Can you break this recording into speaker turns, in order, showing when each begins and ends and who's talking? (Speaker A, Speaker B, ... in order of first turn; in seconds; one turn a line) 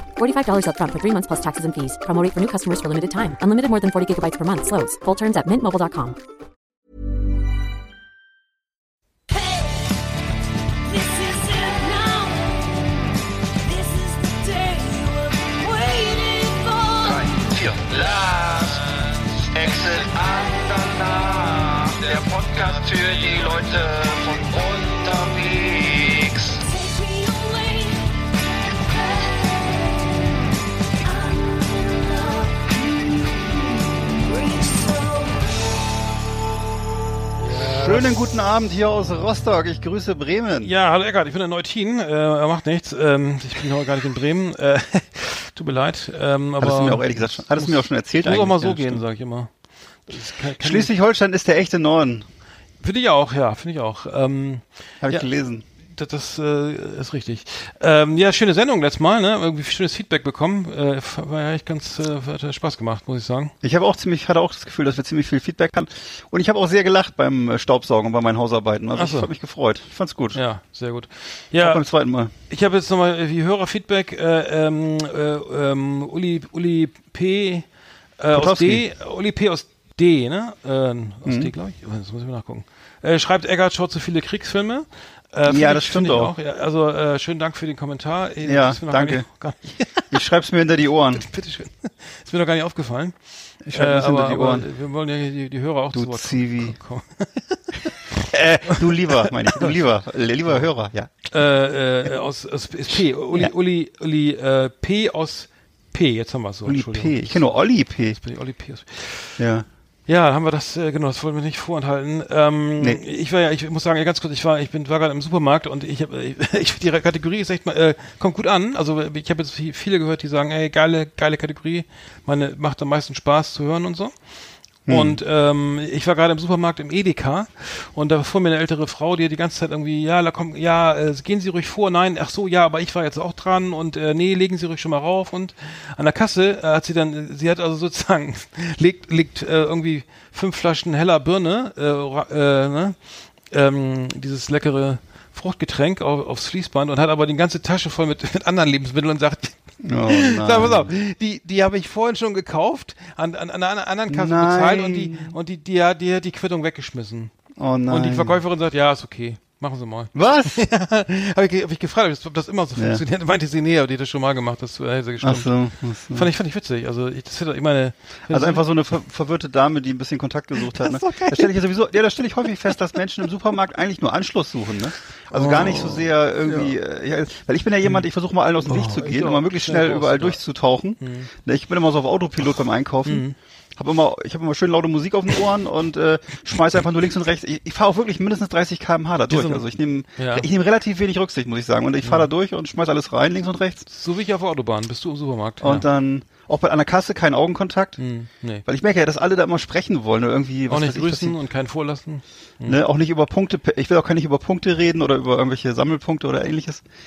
Speaker A: 0.2-6.2
Speaker B: 9.3-10.0
Speaker B: 10.8-13.1
Speaker B: 13.6-17.4
Speaker C: 17.0-26.6
Speaker B: 26.6-30.3
Speaker B: 31.0-35.6
Speaker D: 37.4-38.2
Speaker E: 37.7-40.7
Speaker D: 40.6-49.5
Speaker E: 46.6-49.0
Speaker D: 50.1-50.9
Speaker E: 50.6-52.2
Speaker D: 52.8-55.2
Speaker E: 55.0-55.6
Speaker D: 56.0-63.5
Speaker E: 63.6-70.4
Speaker D: 69.0-69.3
Speaker D: 70.3-71.8
Speaker E: 71.6-72.3
Speaker D: 72.5-77.7
Speaker D: 78.2-90.1
Speaker E: 78.3-78.8
Speaker E: 81.2-81.5
Speaker E: 85.5-86.3
Speaker E: 88.4-89.2
Speaker E: 90.1-91.2
Speaker D: 91.1-93.1
Speaker E: 93.6-94.7
Speaker D: 93.7-99.8
Speaker E: 95.9-96.8
Speaker E: 98.3-101.1
Speaker D: 101.3-107.5
Speaker E: 106.7-108.2
Speaker D: 108.1-109.4
Speaker E: 109.4-109.7
Speaker D: 110.1-124.1
Speaker E: 124.8-125.2
Speaker D: 124.9-143.0
Speaker D: 143.5-157.3
Speaker E: 149.8-150.9
Speaker E: 154.1-155.3
Speaker E: 157.6-158.4
Speaker D: 157.9-165.5
Speaker E: 160.1-160.6
Speaker E: 162.8-163.0
Speaker E: 165.2-166.3
Speaker D: 166.1-168.6
Speaker E: 168.3-193.9
Speaker D: 170.6-171.5
Speaker D: 175.3-176.7
Speaker D: 178.7-180.4
Speaker D: 181.0-181.3
Speaker D: 183.1-183.3
Speaker D: 189.3-189.6
Speaker D: 190.2-190.4
Speaker D: 192.0-192.3
Speaker D: 193.9-195.9
Speaker E: 195.6-198.0
Speaker D: 198.0-198.6
Speaker E: 198.6-201.4
Speaker D: 200.7-202.8
Speaker E: 202.7-206.8